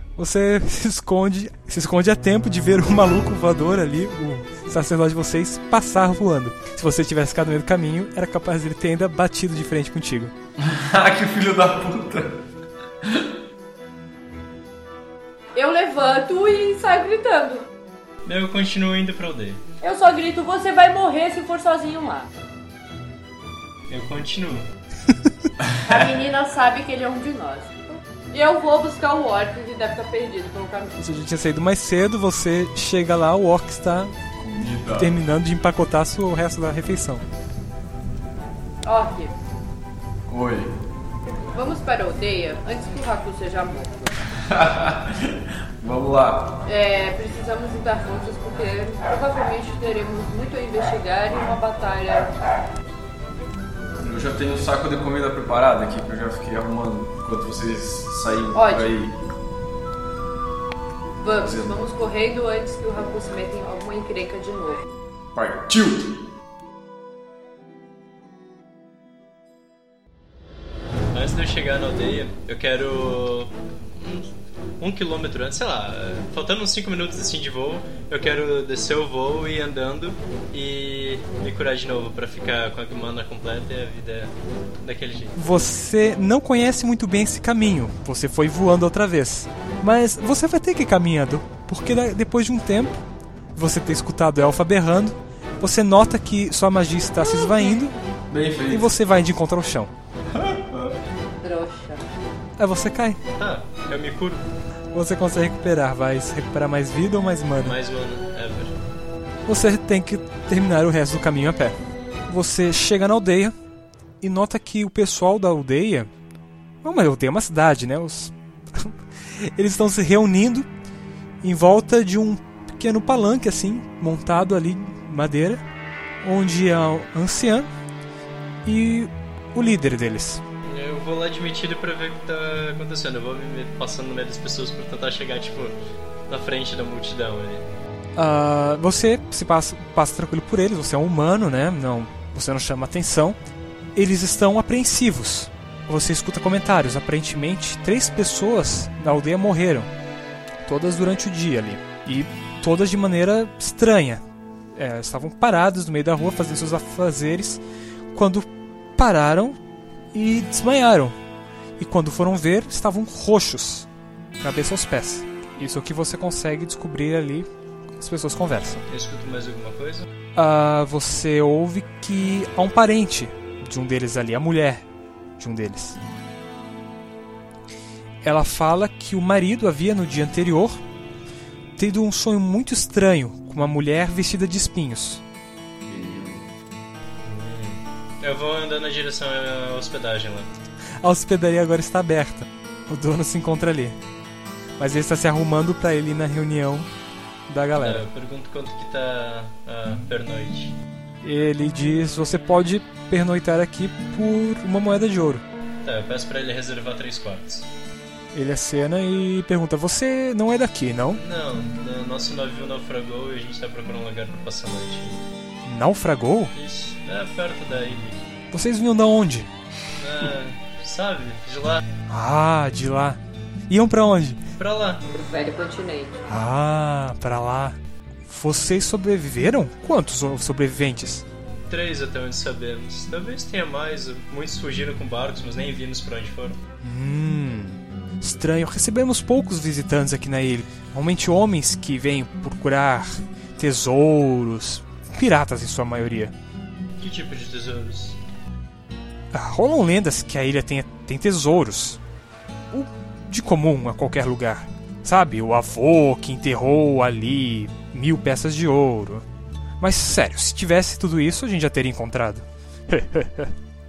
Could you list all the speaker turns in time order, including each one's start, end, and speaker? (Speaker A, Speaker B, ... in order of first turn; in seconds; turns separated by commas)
Speaker A: 0.2-10.3, Speaker B: 10.6-12.4, Speaker C: 15.6-17.6, Speaker D: 18.2-19.6, Speaker C: 19.8-22.3, Speaker D: 23.9-24.7, Speaker C: 25.8-31.0, Speaker A: 31.0-34.1, Speaker B: 34.4-35.1, Speaker A: 35.0-37.2, Speaker C: 38.8-39.3, Speaker B: 40.3-40.7, Speaker C: 41.5-44.1, Speaker B: 44.3-46.6, Speaker C: 46.6-52.3, Speaker B: 54.0-59.1, Speaker C: 58.5-58.9, Speaker C: 61.2-64.8, Speaker B: 61.4-61.7, Speaker B: 65.3-66.2, Speaker D: 71.1-85.3, Speaker A: 85.3-93.0, Speaker A: 93.5-98.0, Speaker B: 98.3-98.9, Speaker A: 98.7-99.9, Speaker B: 100.3-100.9, Speaker C: 101.4-102.0, Speaker A: 102.6-103.2, Speaker D: 103.4-104.4, Speaker A: 104.9-107.8, Speaker D: 107.6-108.8, Speaker A: 109.5-113.5, Speaker A: 114.2-116.1, Speaker A: 116.8-120.7, Speaker A: 121.4-125.6, Speaker A: 126.2-127.7, Speaker A: 128.6-130.4, Speaker D: 130.6-135.7, Speaker D: 136.3-137.7, Speaker A: 138.2-143.4, Speaker A: 143.9-149.9, Speaker A: 150.6-154.2, Speaker A: 154.7-157.6, Speaker A: 158.1-159.6, Speaker A: 160.1-161.2, Speaker A: 161.8-163.9, Speaker A: 164.4-168.8, Speaker D: 168.9-170.1, Speaker A: 170.3-174.8, Speaker A: 175.4-176.0, Speaker A: 178.2-180.8, Speaker A: 181.8-185.2, Speaker B: 185.8-186.4, Speaker D: 187.2-190.5, Speaker A: 191.0-194.0, Speaker A: 194.8-196.9, Speaker A: 197.5-198.1, Speaker D: 197.8-200.8, Speaker A: 201.2-205.4, Speaker D: 205.8-207.7, Speaker A: 208.3-211.2, Speaker D: 211.2-215.2, Speaker A: 215.6-216.5, Speaker D: 216.5-218.2, Speaker A: 218.5-219.5, Speaker D: 220.0-221.8, Speaker A: 222.1-224.4, Speaker D: 224.6-225.0, Speaker C: 225.1-226.2, Speaker A: 226.3-231.2, Speaker D: 231.7-236.6, Speaker A: 236.8-246.3, Speaker D: 247.0-248.2, Speaker A: 249.3-252.0, Speaker A: 252.7-259.2, Speaker A: 259.8-263.5